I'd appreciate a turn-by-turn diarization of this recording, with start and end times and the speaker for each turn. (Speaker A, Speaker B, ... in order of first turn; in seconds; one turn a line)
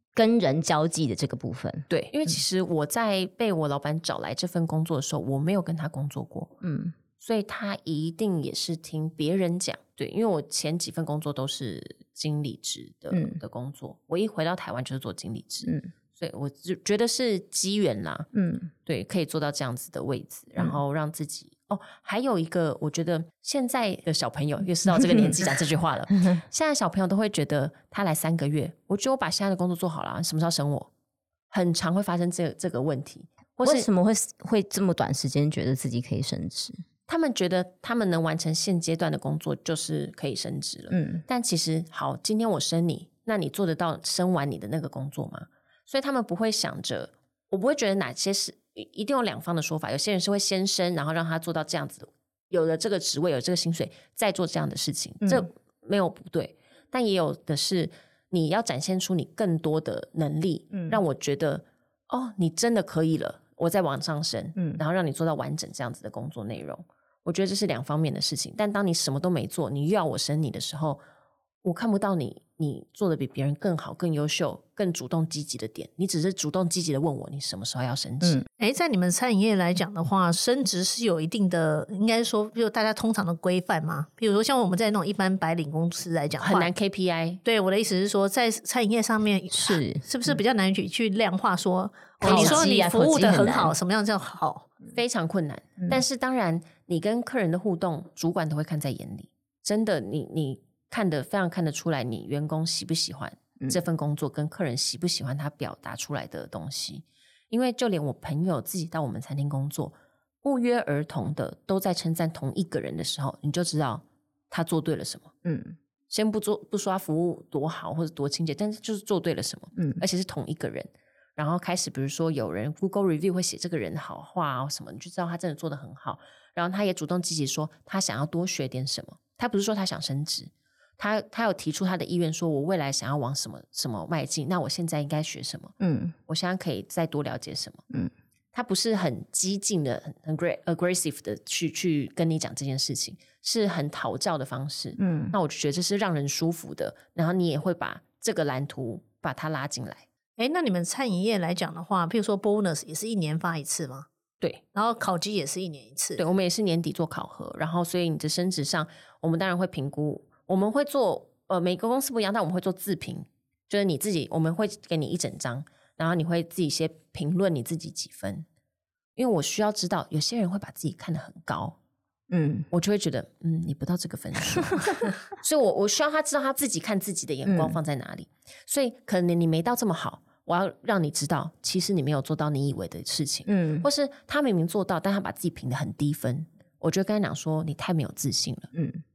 Speaker A: 0.1-1.9
Speaker B: 1.9-6.5
Speaker A: 6.6-6.9
Speaker B: 7.2-18.3
Speaker A: 13.1-13.4
Speaker A: 15.6-15.9
Speaker A: 18.3-18.7
Speaker B: 18.8-30.9
Speaker A: 25.1-25.4
Speaker B: 31.5-33.9
Speaker A: 33.6-36.8
Speaker B: 37.1-71.0
Speaker A: 40.9-41.2
Speaker A: 55.2-55.5
Speaker A: 60.7-61.0
Speaker A: 64.6-64.8
Speaker B: 71.6-78.4
Speaker C: 78.6-86.7
Speaker B: 86.4-87.4
Speaker C: 87.4-94.7
Speaker A: 89.5-90.0
Speaker A: 92.2-93.7
Speaker B: 92.2-92.6
Speaker B: 94.9-115.3
Speaker A: 115.4-115.8
Speaker B: 116.1-135.7
Speaker A: 135.8-136.1
Speaker B: 136.3-137.8
Speaker B: 138.5-150.0
Speaker A: 145.0-145.3
Speaker C: 150.4-154.1
Speaker C: 154.7-156.2
Speaker B: 156.2-168.5
Speaker B: 169.2-171.8
Speaker A: 172.3-172.7
Speaker B: 172.7-188.7
Speaker A: 174.7-175.1
Speaker A: 177.4-177.8
Speaker A: 183.4-183.8
Speaker A: 188.7-189.0